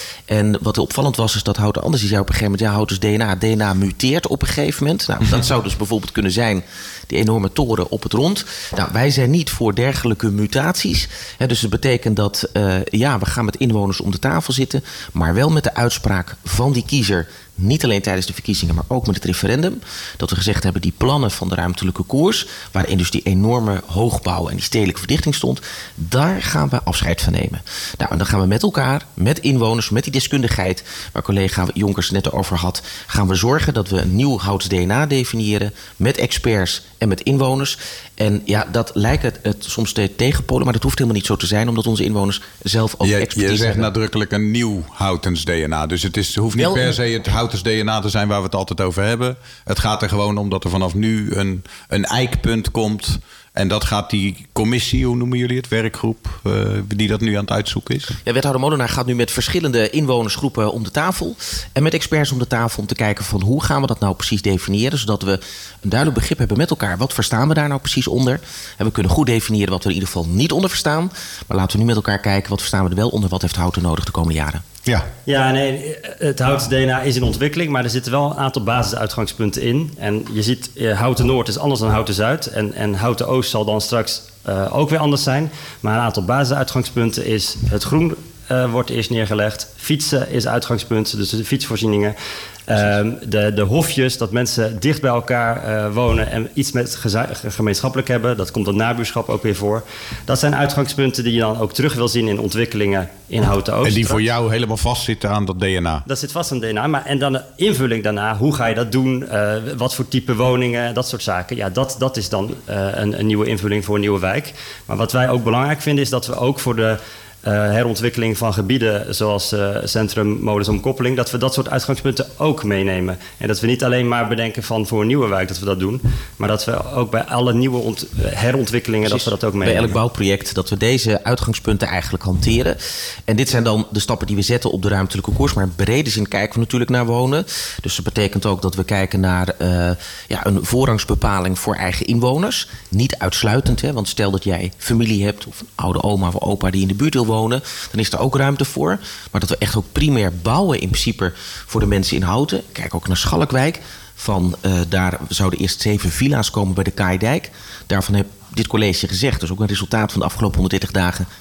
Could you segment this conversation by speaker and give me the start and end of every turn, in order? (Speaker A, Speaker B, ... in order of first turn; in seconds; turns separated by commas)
Speaker A: 0.3-43.9, Speaker B: 43.0-58.1, Speaker A: 46.6-46.9, Speaker A: 58.2-74.6, Speaker C: 75.2-92.2, Speaker C: 92.7-104.2, Speaker B: 103.8-106.0, Speaker C: 106.1-130.0, Speaker A: 129.0-161.3